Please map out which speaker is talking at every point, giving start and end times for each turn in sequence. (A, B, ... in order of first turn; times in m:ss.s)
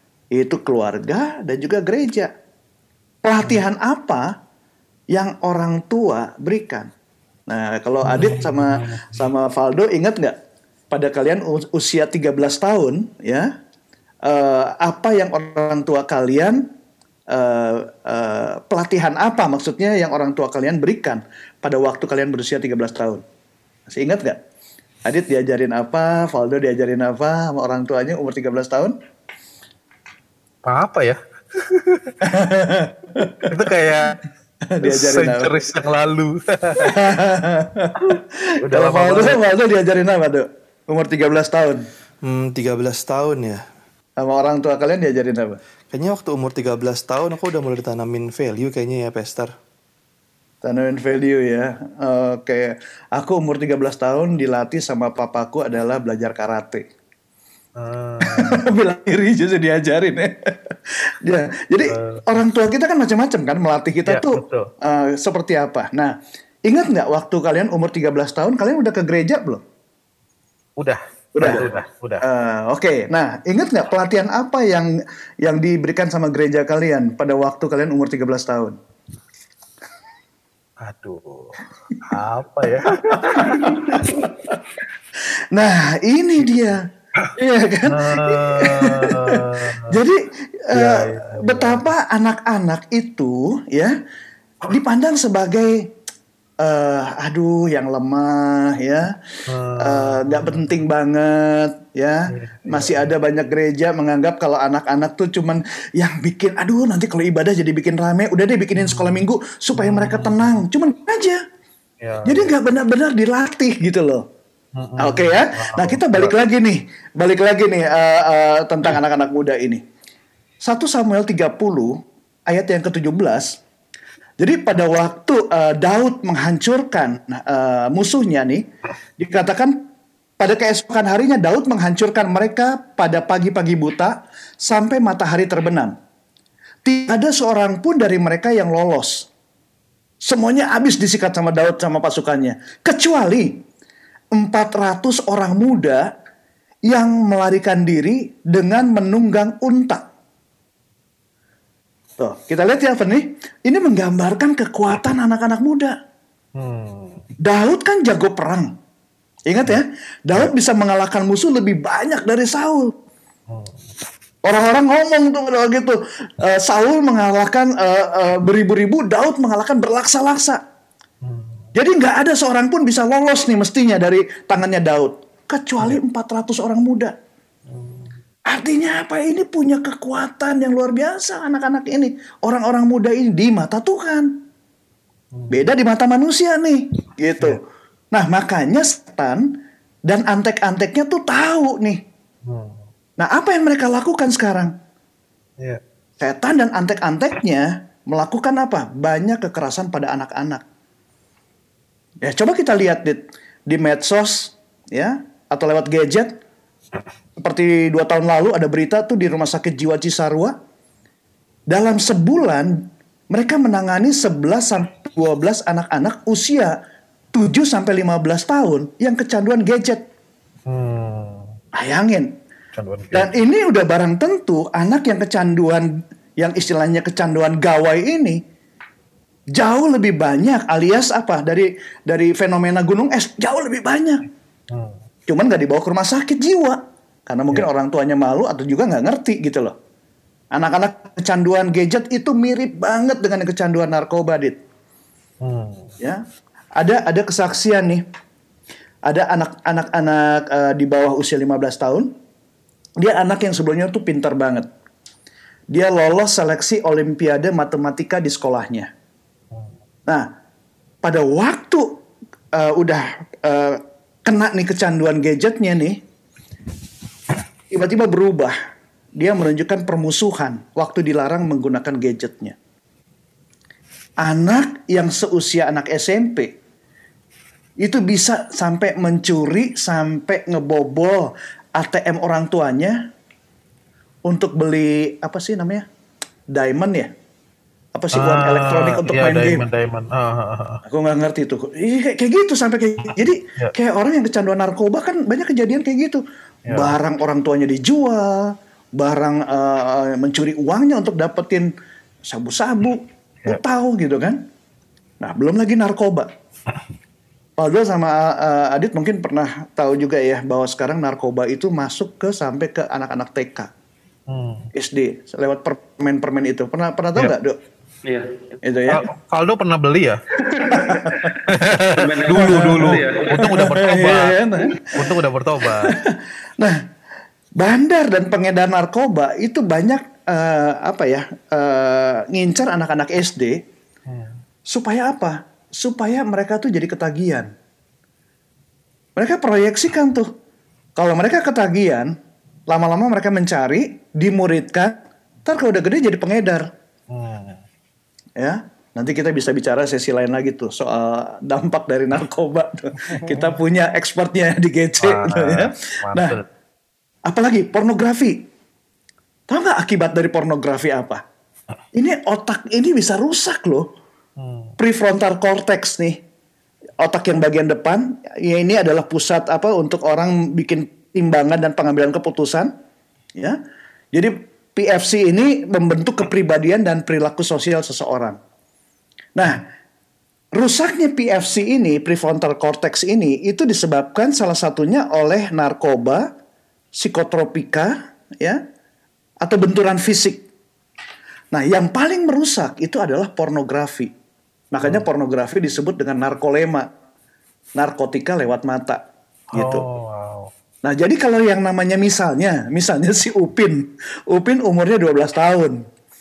0:00.3-0:02.3 A
0:03.2-0:04.3 A
0:05.1-0:06.9 A
0:07.5-0:10.4 A
0:08.0-0:09.2 B
0:10.9-0:13.5 A
0:14.2-0:16.6 A
0:17.3-0:23.2 A
0:23.9-0:24.4 A
0:25.0-0:28.9 A
0:30.6-0:32.1 B
0:32.2-0:33.5 A
0:33.5-0:34.2 B
0:34.7-0:35.5 A
0:34.8-0:37.0 B
0:36.8-0:41.8 A
0:38.0-0:39.4 B
0:42.2-0:43.6 C
0:44.2-0:45.6 A
0:45.9-0:49.5 C
0:50.6-0:56.8 A
0:57.8-0:58.7 B
0:58.2-1:00.7 A
1:01.2-1:06.1 A
1:01.9-1:02.2 B
1:04.1-1:04.7 B
1:06.7-1:09.6 A
1:10.8-1:12.2 B
1:11.3-1:11.7 A
1:12.2-1:18.8 A
1:20.8-1:24.3 B
1:22.8-1:24.6 A
1:25.5-1:26.8 A
1:27.4-1:34.0 A
1:27.9-1:29.8 B
1:30.7-1:31.9 B
1:34.6-1:35.9 A
1:36.6-1:39.1 A
1:39.5-1:40.8 B
1:39.8-1:51.4 A
1:42.3-1:43.1 B
1:48.8-1:49.2 B
1:49.8-1:50.6 B
1:52.0-1:52.5 B
1:52.2-1:54.2 A
1:54.8-1:56.3 B
1:55.0-1:59.8 A
2:00.6-2:03.6 A
2:04.4-2:08.6 A
2:09.2-2:09.8 A
2:10.4-2:15.9 A
2:16.8-2:19.3 A
2:20.2-2:23.6 A
2:24.3-2:26.1 A
2:26.9-2:30.0 A
2:32.2-2:35.9 A
2:36.5-2:37.2 B
2:37.4-2:38.7 A
2:39.5-2:42.9 A
2:43.5-2:43.8 B
2:44.4-2:50.6 A
2:51.2-2:51.6 B
2:51.7-2:57.1 A
2:57.7-2:58.1 B
2:58.5-3:04.4 A
3:05.3-3:05.6 B
3:05.5-3:07.6 A
3:08.1-3:09.6 A
3:10.1-3:12.0 A
3:12.4-3:12.8 B
3:13.2-3:14.7 A
3:16.2-3:20.6 A
3:22.2-3:26.4 A
3:27.4-3:30.5 A
3:31.7-3:36.8 A
3:37.3-3:40.0 A
3:40.7-3:41.5 B
3:41.7-3:42.3 A
3:42.7-3:43.3 B
3:43.1-3:48.4 A
3:49.5-3:54.2 A
3:54.7-3:55.0 B
3:55.3-3:59.7 A
4:00.5-4:04.6 A
4:05.4-4:05.9 B
4:06.8-4:08.0 A
4:09.1-4:12.1 A
4:13.0-4:14.7 A
4:15.7-4:18.9 A
4:21.0-4:21.9 A
4:22.5-4:26.0 A
4:27.7-4:28.5 A
4:29.2-4:32.6 A
4:34.2-4:36.5 A
4:37.8-4:43.0 A
4:44.3-4:45.8 A
4:46.5-4:47.1 A
4:47.9-4:49.6 A
4:48.1-4:50.8 B
4:50.9-5:01.7 A
4:56.7-4:56.9 B
5:02.3-5:04.4 A
5:05.2-5:06.3 A
5:07.6-5:13.7 A
5:14.3-5:14.7 B
5:14.7-5:17.6 A
5:18.0-5:18.5 D
5:18.6-5:19.0 A
5:18.9-5:20.2 B
5:20.4-5:21.5 A
5:21.4-5:26.0 B
5:21.9-5:23.7 D
5:22.3-5:25.1 A
5:25.7-5:26.8 A
5:27.6-5:33.6 A
5:34.1-5:34.4 B
5:34.7-5:37.5 A
5:39.2-5:40.3 A
5:41.0-5:42.1 A
5:42.7-5:46.7 A
5:47.1-5:47.6 B
5:48.4-5:56.4 A
5:53.2-5:53.5 B
5:55.0-5:56.4 B
5:57.2-5:58.4 A
5:59.5-6:01.2 A
6:01.9-6:03.9 A
6:04.4-6:04.7 B
6:04.8-6:06.2 A
6:07.0-6:12.7 A
6:14.1-6:18.4 A
6:19.4-6:19.6 A
6:20.5-6:26.3 A
6:26.9-6:28.6 A
6:29.4-6:30.4 A
6:31.5-6:34.1 A
6:34.7-6:36.9 A
6:37.8-6:39.0 A
6:39.5-6:39.9 A
6:39.5-6:40.5 B
6:40.8-6:45.8 A